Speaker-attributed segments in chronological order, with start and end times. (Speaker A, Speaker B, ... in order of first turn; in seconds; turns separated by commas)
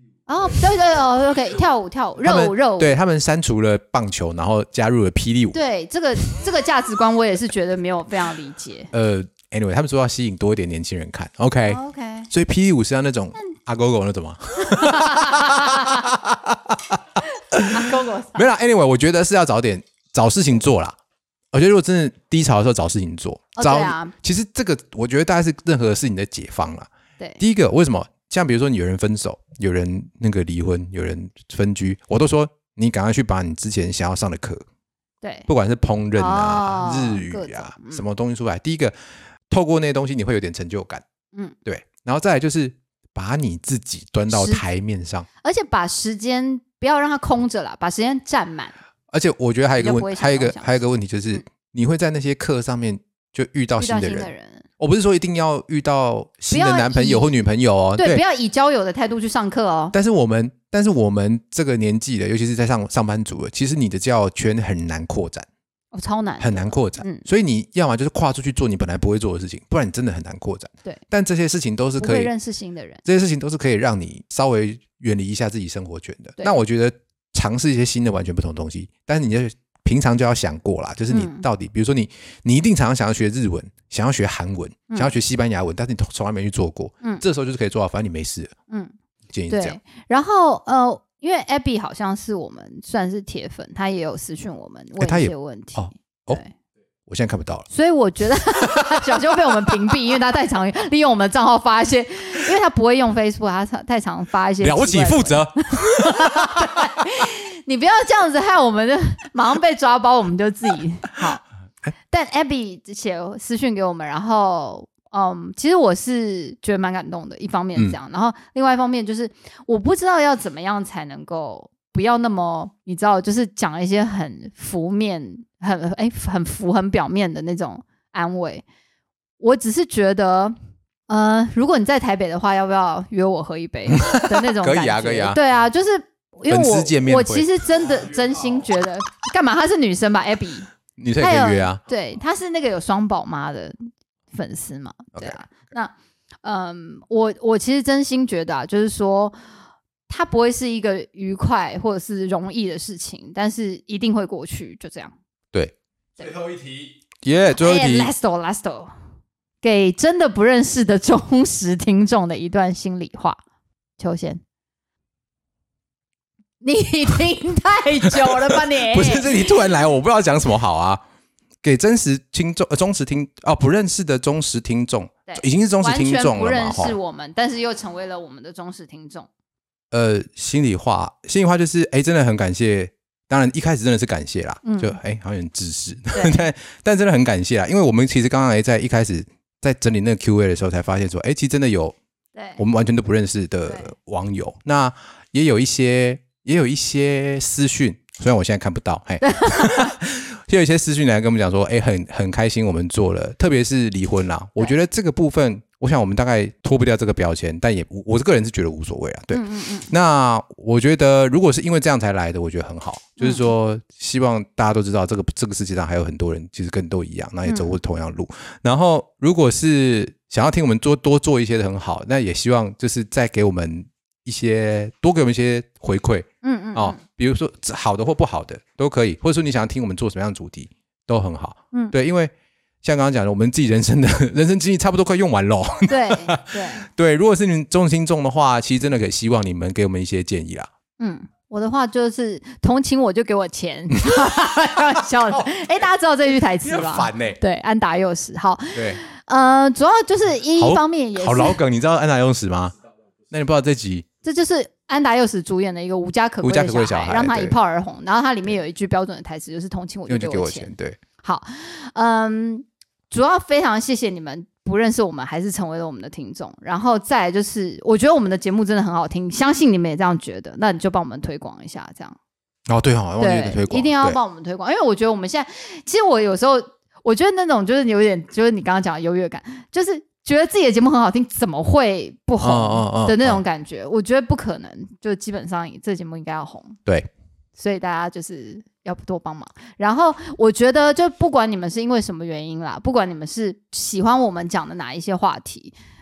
Speaker A: 0.3-3.0, Speaker B: 2.2-5.6, Speaker A: 5.5-8.9, Speaker B: 8.9-21.0, Speaker A: 11.7-12.3, Speaker A: 14.6-16.1, Speaker A: 17.7-18.4, Speaker B: 21.5-34.6, Speaker A: 23.6-24.1, Speaker A: 35.2-35.5, Speaker B: 35.5-38.9, Speaker A: 36.1-38.0, Speaker B: 39.5-41.0, Speaker B: 41.6-45.3, Speaker A: 44.3-44.6, Speaker A: 45.4-48.7, Speaker B: 49.1-58.2, Speaker A: 49.8-50.7, Speaker A: 53.8-54.7, Speaker A: 56.5-57.3, Speaker A: 58.0-59.9, Speaker B: 59.9-65.5, Speaker A: 65.9-67.2, Speaker B: 66.4-72.3, Speaker A: 72.0-73.0, Speaker B: 73.0-88.5, Speaker A: 81.1-81.5, Speaker B: 89.3-89.8, Speaker A: 89.5-96.5, Speaker B: 95.0-96.4, Speaker B: 97.1-97.7, Speaker A: 97.7-111.4, Speaker B: 104.6-106.8, Speaker A: 112.1-128.6, Speaker A: 129.4-130.6, Speaker A: 131.1-140.7, Speaker B: 133.9-135.4, Speaker B: 136.5-137.5, Speaker B: 141.0-141.8, Speaker A: 141.2-143.8, Speaker A: 144.3-149.4, Speaker B: 145.1-145.5, Speaker A: 150.1-155.1, Speaker A: 156.2-156.5, Speaker B: 157.2-158.1, Speaker A: 157.6-158.9, Speaker A: 159.6-163.4, Speaker A: 164.0-164.4, Speaker A: 166.6-169.4, Speaker B: 168.5-171.0, Speaker B: 171.6-176.9, Speaker A: 175.3-179.3, Speaker B: 179.9-191.9, Speaker A: 184.6-185.0, Speaker A: 186.1-186.4, Speaker A: 192.3-192.6, Speaker B: 192.6-240.7, Speaker A: 193.7-193.9, Speaker A: 199.3-199.9, Speaker A: 209.3-209.9, Speaker A: 213.2-213.5, Speaker A: 217.5-217.8, Speaker A: 226.4-227.0, Speaker A: 235.9-236.8, Speaker A: 241.0-251.6, Speaker B: 246.6-247.4, Speaker B: 248.7-249.0, Speaker B: 250.6-252.7, Speaker B: 253.3-254.1, Speaker A: 254.2-272.2, Speaker B: 256.4-257.6, Speaker B: 260.1-261.0, Speaker B: 272.7-274.2, Speaker A: 273.2-286.8, Speaker B: 282.4-283.4, Speaker A: 287.6-295.7